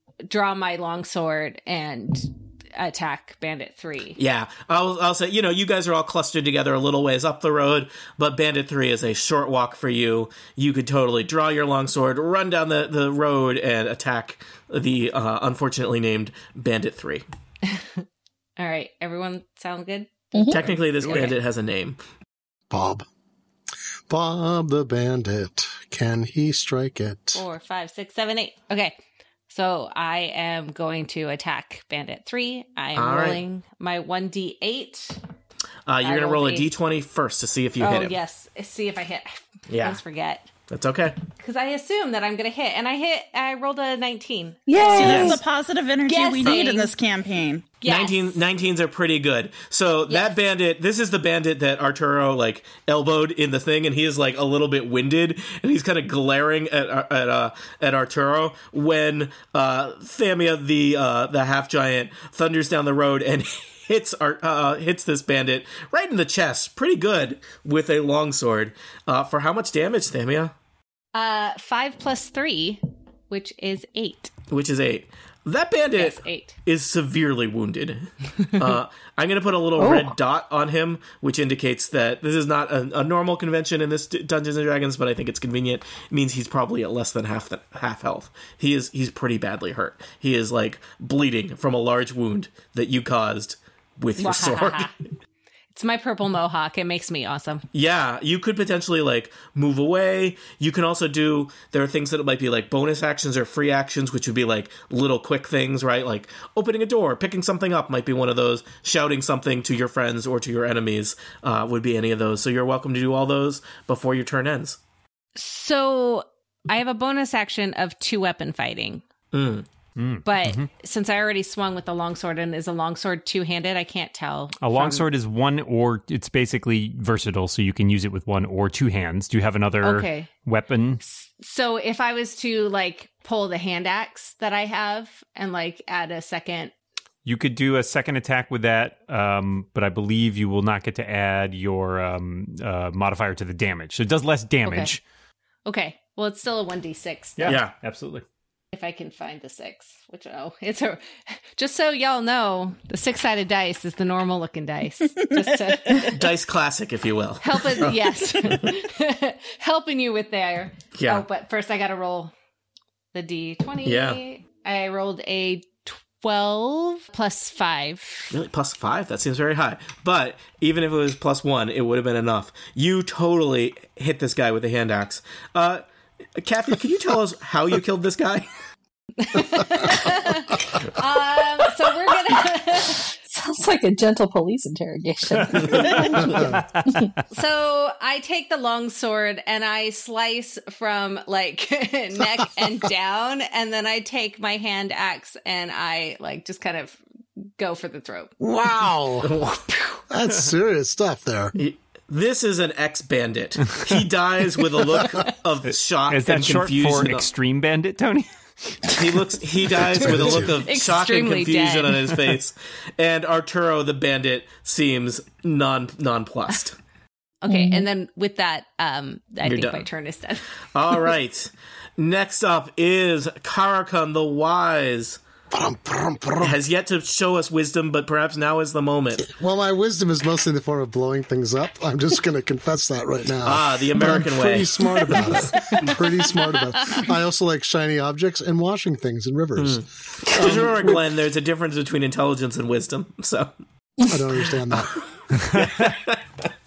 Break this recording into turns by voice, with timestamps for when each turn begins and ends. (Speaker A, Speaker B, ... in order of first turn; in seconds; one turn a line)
Speaker A: 0.3-4.2
Speaker B: 4.2-17.2
Speaker A: 17.7-18.0
Speaker A: 18.6-21.4
Speaker C: 20.3-20.7
Speaker B: 20.5-22.0
Speaker D: 22.7-23.1
Speaker D: 24.1-27.4
Speaker A: 27.4-29.0
Speaker A: 29.5-35.2
Speaker B: 33.0-33.4
Speaker B: 35.9-38.1
Speaker A: 36.0-36.7
Speaker A: 37.8-40.5
Speaker B: 39.7-40.0
Speaker B: 40.7-41.2
Speaker A: 41.4-45.3
Speaker C: 44.7-45.4
Speaker E: 44.9-47.7
Speaker B: 45.0-45.4
Speaker A: 46.0-46.9
Speaker A: 47.8-48.4
Speaker B: 47.9-70.5
Speaker A: 50.1-50.4
Speaker A: 71.1-74.3
Speaker B: 74.5-94.9
Speaker A: 76.0-76.6
Speaker C: 79.8-80.2
Speaker A: 94.2-94.9
Speaker A: 95.7-97.6
Speaker B: 97.7-114.8
Speaker A: 115.4-119.0
Speaker B: 119.3-119.7
Speaker F: 120.0-120.7
Speaker A: 120.2-125.1
Speaker F: 124.6-131.0
Speaker A: 129.8-130.3
Speaker A: 131.0-136.7
Speaker F: 137.2-145.0
Speaker A: 144.7-144.9
Speaker A: 145.7-147.6
Speaker F: 147.4-148.2
Speaker B: 147.5-147.7
Speaker A: 148.7-151.0
Speaker A: 151.6-156.2
Speaker B: 156.1-158.7
Speaker A: 157.4-162.3
Speaker B: 160.9-161.2
Speaker A: 163.1-168.3
Speaker B: 163.8-164.2
Speaker B: 168.3-175.8
Speaker B: 176.4-178.5
Speaker A: 179.2-183.1
Speaker C: 183.3-187.1
Speaker F: 185.4-187.2
Speaker A: 187.3-197.0
Speaker A: 197.6-198.3
Speaker D: 198.4-199.3
Speaker B: 199.2-199.7
Speaker D: 200.1-201.6
Speaker B: 201.6-207.3
Speaker F: 205.7-209.1
Speaker B: 208.9-216.8
Speaker D: 210.0-210.5
Speaker A: 210.1-212.1
Speaker A: 217.4-220.4
Speaker C: 217.5-217.9
Speaker B: 219.4-219.9
Speaker B: 220.7-225.2
Speaker D: 225.5-226.6
Speaker B: 226.4-229.3
Speaker D: 229.2-241.0
Speaker B: 233.4-234.8
Speaker B: 239.6-243.5
Speaker D: 244.1-245.0
Speaker F: 245.4-245.9
Speaker B: 245.5-246.3